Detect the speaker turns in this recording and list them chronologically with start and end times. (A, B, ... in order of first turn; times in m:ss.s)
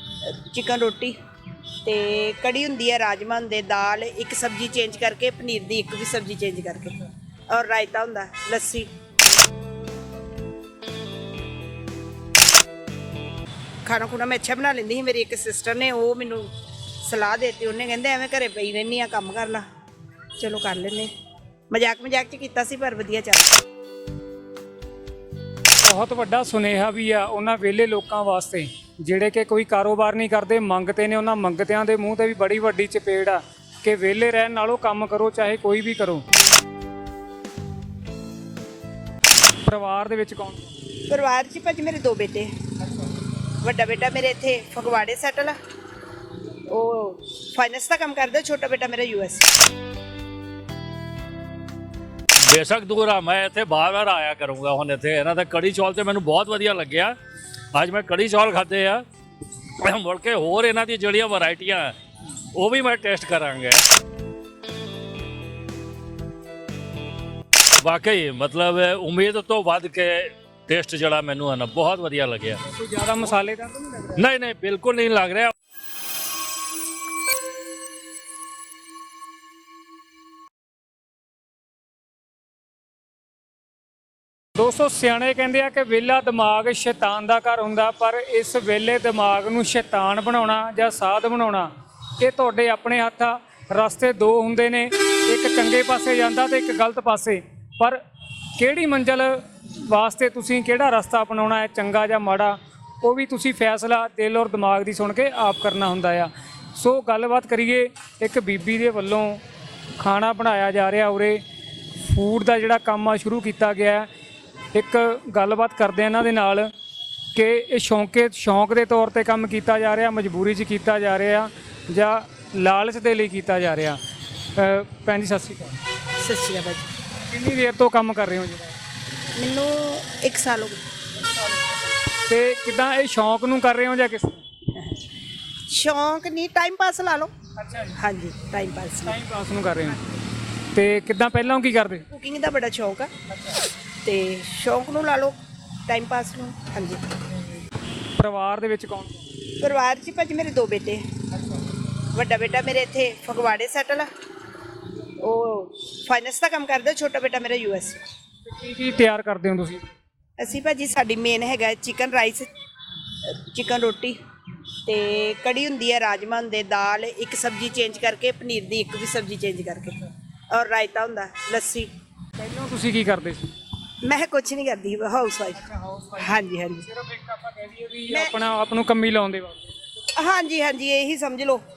0:00.2-0:01.2 A
0:01.8-0:08.9 A
0:13.8-0:16.5 A
0:17.0-0:19.6 A
0:20.4-0:21.1 A
0:21.7-0:23.6 A
0:25.8-0:36.2 B
0:39.6-0:40.7 B
0:41.1-0:42.5 A
0:43.6-0:45.6 A
0:46.7-0:49.5 A
0:52.4-0:57.2 C
0:57.7-0:59.0 C
0:59.8-1:02.0 C
1:02.5-1:03.8 C
1:07.8-1:12.6 C
1:12.7-1:14.2 B
1:14.2-1:15.5 C
1:24.6-1:38.0 B
1:38.6-1:49.4 B
1:50.0-1:51.4 B
1:52.0-1:54.1 B
1:54.7-1:56.7 B
1:57.3-2:04.0 B
2:04.6-2:05.8 B
2:06.2-2:06.9 A
2:07.3-2:08.8 B
2:09.4-2:10.8 A
2:12.1-2:14.4 B
2:14.8-2:15.1 A
2:15.7-2:17.3 A
2:17.6-2:18.0 B
2:18.0-2:19.1 A
2:19.0-2:20.0 B
2:20.7-2:22.1 B
2:22.1-2:23.1 A
2:24.0-2:25.4 A
2:25.9-2:27.0 A
2:28.2-2:29.3 B
2:29.6-2:31.1 A
2:32.1-2:34.1 A
2:35.2-2:38.0 A
2:38.5-2:39.9 B
2:40.4-2:42.5 A
2:43.2-2:44.2 A
2:44.9-2:51.9 A
2:52.4-2:53.5 B
2:54.0-2:55.6 A
2:55.6-2:56.3 B
2:56.2-2:56.9 A
2:56.9-2:59.7 B
3:00.2-3:01.6 A